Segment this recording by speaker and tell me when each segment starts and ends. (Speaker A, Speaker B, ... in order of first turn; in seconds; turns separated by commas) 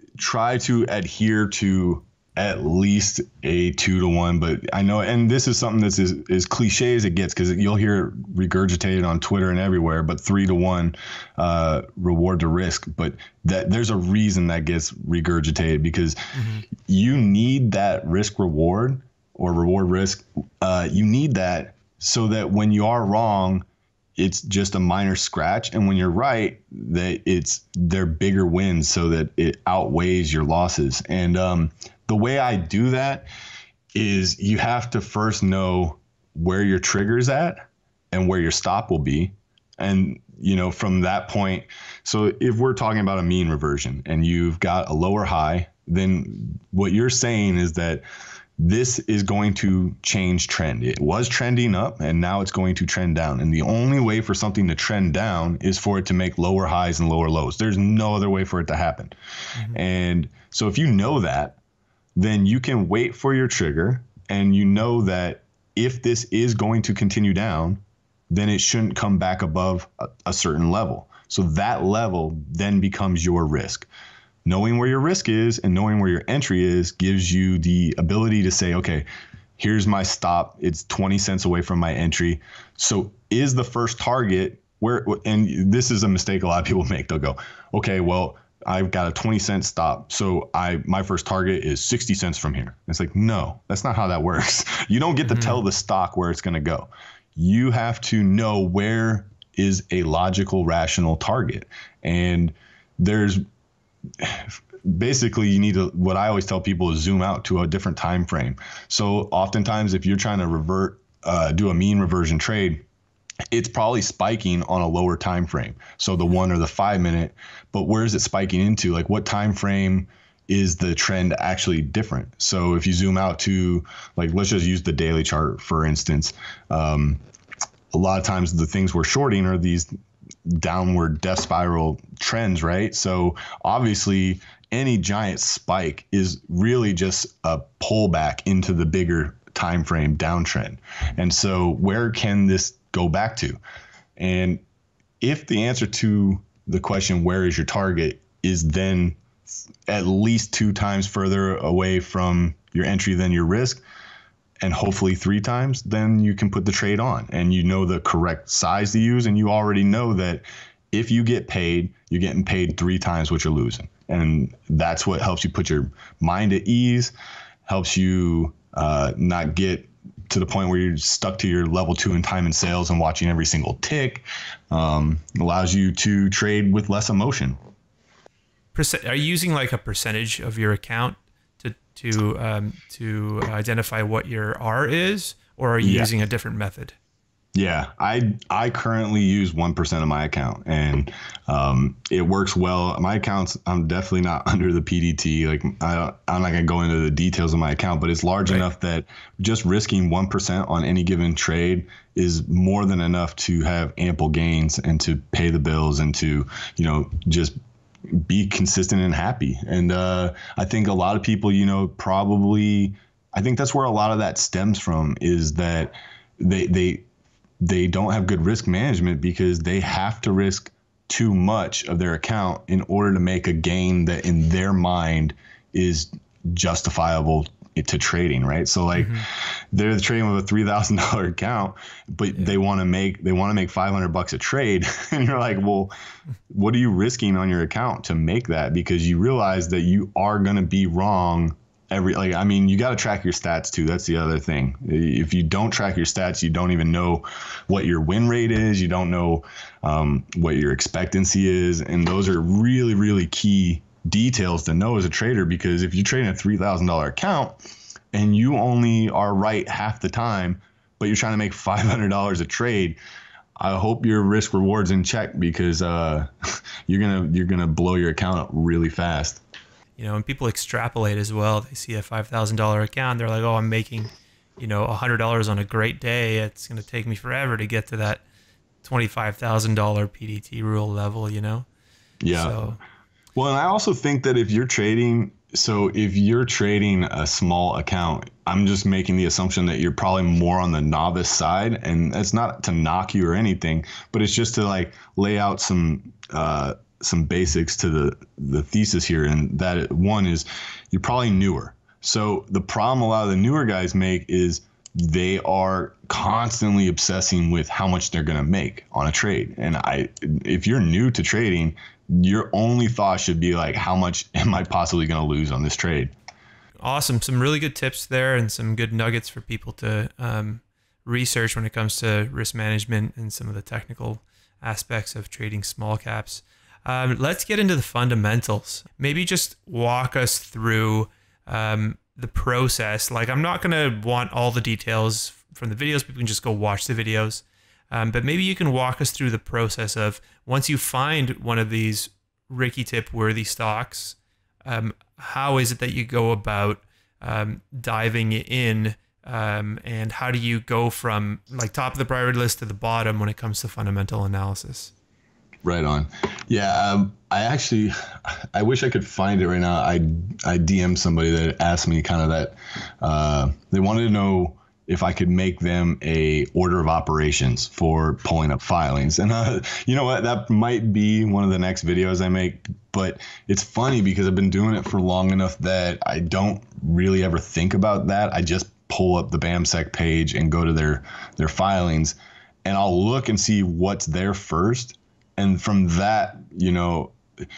Speaker A: 0.2-23.6, Speaker B: 16.3-16.6, Speaker A: 24.2-33.3, Speaker A: 33.9-48.0, Speaker A: 48.6-59.1, Speaker A: 59.7-61.6, Speaker A: 62.2-73.9, Speaker A: 74.5-79.1, Speaker A: 79.6-103.4, Speaker B: 95.3-95.6, Speaker A: 104.2-112.8, Speaker A: 113.5-127.2, Speaker A: 127.9-129.9, Speaker A: 130.5-143.6, Speaker A: 144.2-144.6, Speaker A: 145.2-149.2, Speaker A: 149.9-153.8, Speaker A: 154.6-167.1, Speaker A: 167.7-177.6, Speaker B: 178.8-186.9, Speaker A: 185.8-186.1, Speaker A: 187.6-207.6, Speaker A: 208.1-217.0, Speaker A: 217.6-235.9, Speaker B: 229.0-229.2, Speaker A: 236.5-257.6, Speaker A: 258.1-263.0, Speaker A: 263.6-266.3, Speaker A: 266.9-269.4, Speaker B: 270.0-278.2, Speaker B: 278.8-281.7, Speaker A: 282.2-282.6, Speaker B: 282.3-282.8, Speaker A: 283.4-316.1, Speaker B: 316.8-354.9, Speaker A: 355.6-387.2